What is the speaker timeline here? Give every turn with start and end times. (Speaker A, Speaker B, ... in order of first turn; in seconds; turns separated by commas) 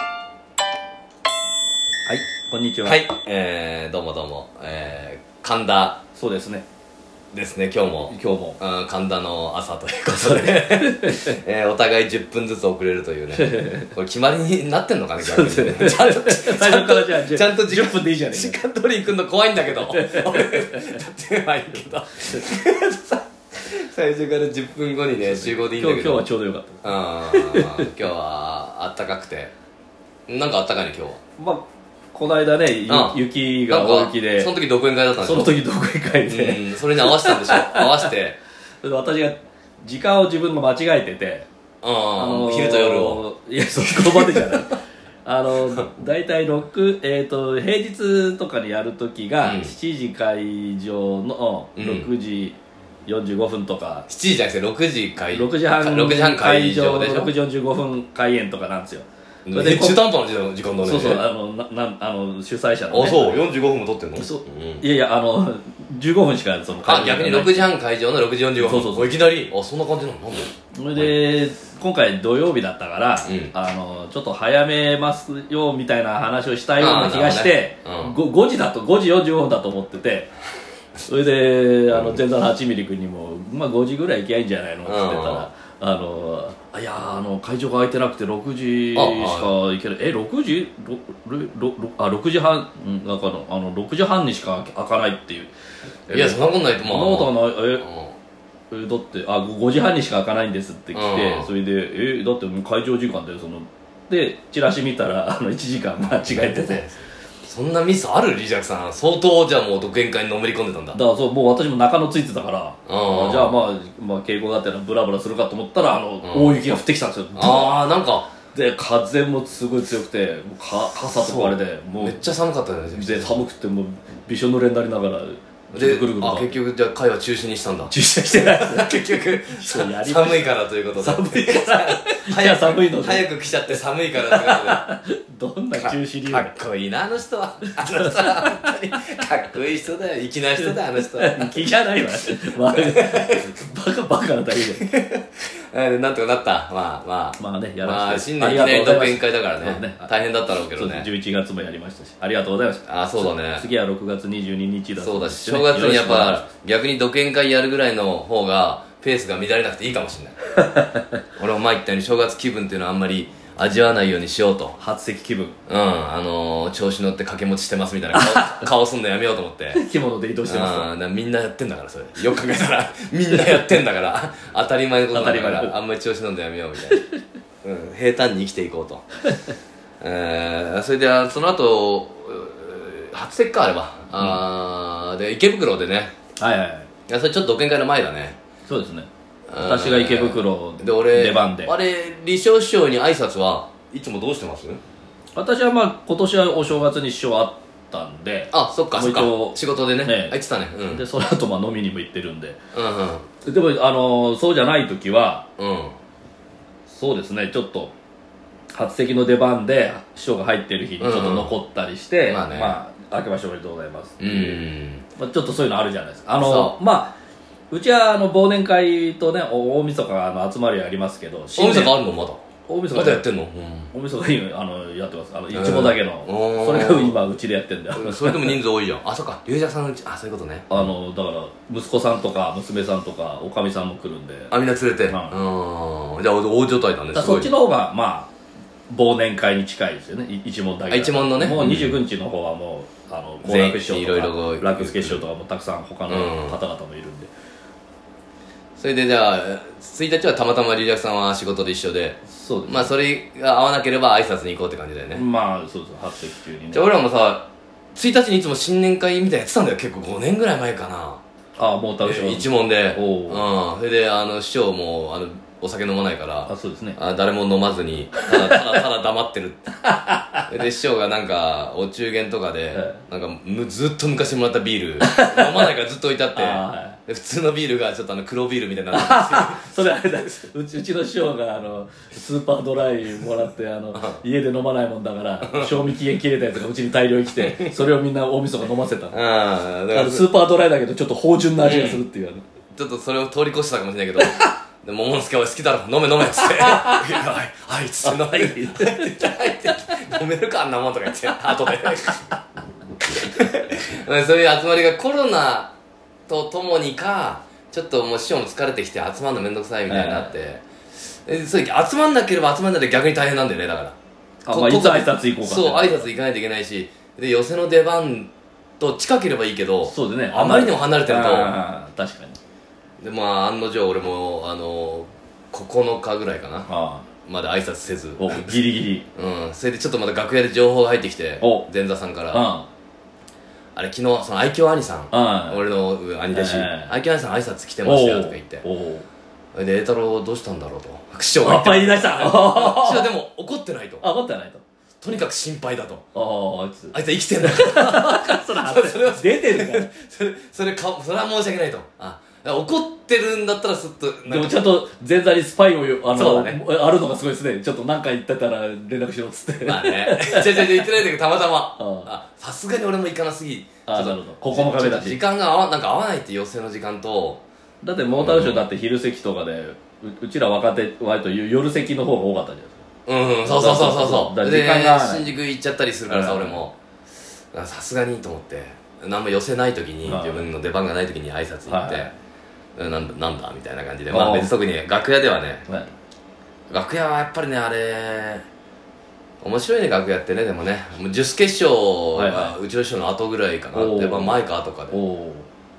Speaker A: 2.0-3.0, Speaker B: 2.8-6.0, Speaker A: 6.1-6.7, Speaker B: 7.3-26.3, Speaker A: 8.1-8.6, Speaker A: 10.1-11.4, Speaker A: 13.3-13.9, Speaker A: 15.2-18.6, Speaker A: 19.7-21.0, Speaker A: 25.2-27.9, Speaker B: 26.8-29.5, Speaker B: 30.3-31.2, Speaker A: 31.4-34.5, Speaker B: 32.9-35.6, Speaker A: 35.2-38.1, Speaker B: 36.2-38.4, Speaker A: 38.8-41.5, Speaker B: 41.8-43.2, Speaker A: 42.2-54.0, Speaker B: 43.8-44.7, Speaker B: 49.4-49.7, Speaker B: 51.8-52.1, Speaker B: 54.1-57.3, Speaker A: 55.2-60.0, Speaker B: 59.5-61.2, Speaker A: 60.8-63.5, Speaker B: 62.9-64.8, Speaker A: 64.2-67.7, Speaker B: 66.8-71.2, Speaker A: 68.6-69.2, Speaker A: 70.7-80.3, Speaker B: 73.2-73.5, Speaker B: 76.8-78.2, Speaker A: 81.1-95.5, Speaker B: 81.9-82.2, Speaker B: 84.8-85.5, Speaker B: 88.9-89.5, Speaker B: 96.1-98.2, Speaker A: 96.1-97.8, Speaker A: 98.7-106.8, Speaker B: 100.9-101.5, Speaker B: 106.0-111.0, Speaker A: 110.9-117.8, Speaker B: 112.9-113.6, Speaker B: 116.2-116.7, Speaker B: 117.3-118.4, Speaker A: 118.4-122.2, Speaker B: 121.2-123.4, Speaker A: 122.9-126.6, Speaker B: 125.7-134.8, Speaker A: 127.9-136.6, Speaker B: 135.8-143.5, Speaker A: 137.7-138.8, Speaker A: 140.6-144.8, Speaker B: 144.6-151.1, Speaker A: 147.4-150.1, Speaker A: 150.8-156.5, Speaker B: 152.9-153.7, Speaker B: 155.0-160.4, Speaker A: 160.6-161.2, Speaker B: 161.3-164.8, Speaker A: 164.8-165.6, Speaker B: 165.7-169.8, Speaker A: 168.1-168.7, Speaker A: 169.7-170.9, Speaker B: 170.4-177.0, Speaker A: 173.3-173.6, Speaker A: 175.1-175.8, Speaker B: 177.6-179.1, Speaker B: 180.0-186.2, Speaker A: 186.4-186.9, Speaker B: 187.1-188.4, Speaker A: 188.7-191.7, Speaker B: 189.5-194.8, Speaker A: 195.3-200.4, Speaker B: 198.5-201.1, Speaker A: 200.9-202.6, Speaker B: 202.7-203.3, Speaker A: 203.4-205.5, Speaker B: 205.6-206.0, Speaker A: 206.9-207.9, Speaker A: 208.7-214.6, Speaker B: 211.0-211.5, Speaker B: 212.2-212.8, Speaker B: 214.2-215.1, Speaker A: 215.2-217.2, Speaker B: 216.4-216.8, Speaker A: 217.7-222.1, Speaker B: 221.6-223.9, Speaker A: 222.6-223.3, Speaker A: 223.9-228.6, Speaker B: 225.5-227.2, Speaker B: 227.9-230.8, Speaker A: 230.7-234.5, Speaker B: 234.5-237.5, Speaker A: 235.1-235.3, Speaker A: 237.1-238.3, Speaker A: 238.9-247.3, Speaker B: 240.9-242.0, Speaker B: 243.4-245.2, Speaker B: 246.1-246.6, Speaker B: 248.8-255.2, Speaker A: 252.3-252.9, Speaker A: 255.1-256.9, Speaker B: 256.7-261.2, Speaker A: 261.6-263.5, Speaker B: 262.0-269.7, Speaker A: 266.4-267.0, Speaker A: 268.1-268.8, Speaker A: 269.8-270.4, Speaker B: 270.5-280.4, Speaker A: 272.7-273.0, Speaker A: 275.0-275.7, Speaker A: 276.3-277.0, Speaker A: 278.9-289.2, Speaker B: 283.9-284.2, Speaker B: 285.4-285.9, Speaker B: 287.4-287.8, Speaker B: 289.1-290.3, Speaker A: 289.9-292.4, Speaker B: 291.6-292.0, Speaker B: 292.7-302.3, Speaker A: 294.2-294.5, Speaker A: 296.2-297.2, Speaker A: 298.0-299.8, Speaker B: 303.0-305.8, Speaker B: 306.3-313.9, Speaker A: 309.9-310.4, Speaker A: 314.4-316.1, Speaker B: 314.5-321.6, Speaker A: 319.8-322.4, Speaker B: 323.0-328.6, Speaker A: 326.7-327.1, Speaker A: 328.2-329.1, Speaker B: 329.1-332.5, Speaker A: 331.4-331.6, Speaker A: 332.3-332.7, Speaker B: 333.8-338.6, Speaker A: 335.1-335.6, Speaker A: 336.3-336.9, Speaker A: 337.8-339.1, Speaker B: 339.5-344.1, Speaker A: 341.4-343.1, Speaker A: 344.0-344.6, Speaker B: 345.0-346.0, Speaker A: 346.1-349.9, Speaker B: 346.9-354.6, Speaker A: 354.2-360.9, Speaker B: 356.1-356.6, Speaker B: 359.6-367.4, Speaker A: 361.8-362.1, Speaker A: 363.9-365.2, Speaker A: 367.8-372.8, Speaker B: 368.1-368.6, Speaker B: 373.1-376.8, Speaker A: 373.4-375.4, Speaker A: 376.1-376.6, Speaker B: 377.5-382.1, Speaker A: 380.0-380.5, Speaker A: 381.7-382.1, Speaker B: 382.8-385.7, Speaker A: 384.1-384.5, Speaker B: 386.7-388.4, Speaker B: 389.4-395.0, Speaker A: 392.1-392.6, Speaker A: 393.7-395.5